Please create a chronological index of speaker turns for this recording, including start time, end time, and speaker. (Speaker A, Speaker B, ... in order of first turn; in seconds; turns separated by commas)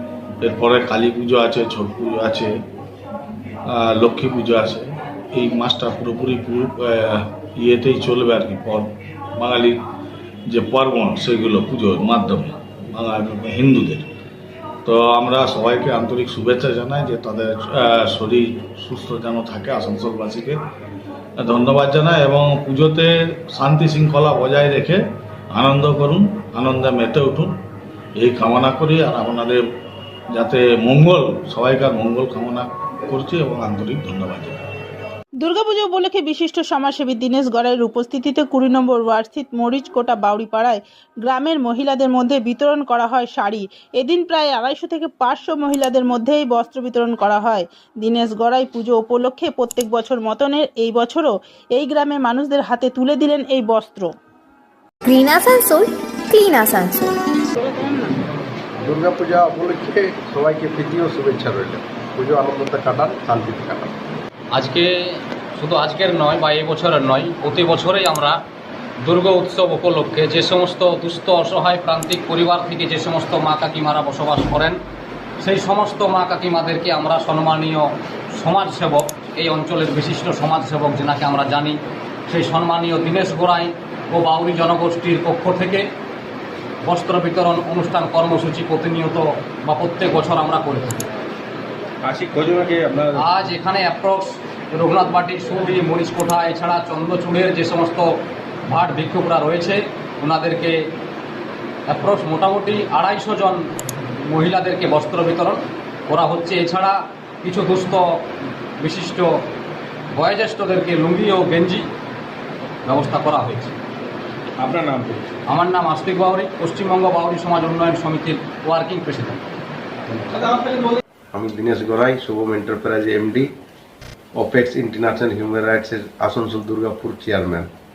Speaker A: 0.4-2.6, Speaker A: 3.7-9.8, Speaker A: 10.5-14.1, Speaker A: 14.8-20.6, Speaker A: 21.4-27.6, Speaker A: 28.2-29.6, Speaker A: 30.3-34.7, Speaker B: 35.4-54.1, Speaker C: 55.0-57.1, Speaker B: 57.6-58.2, Speaker D: 58.8-63.9, Speaker E: 64.5-68.4, Speaker E: 69.0-74.8, Speaker E: 75.4-85.8, Speaker E: 86.8-91.0, Speaker F: 92.0-93.2, Speaker E: 93.2-98.1, Speaker E: 98.7-100.8, Speaker E: 101.9-103.6, Speaker E: 104.3-108.0, Speaker E: 108.8-109.3, Speaker E: 110.1-111.9, Speaker E: 112.9-113.7, Speaker F: 114.6-115.2, Speaker E: 115.5-119.4, Speaker F: 120.5-120.9, Speaker D: 121.3-123.5, Speaker D: 124.3-127.7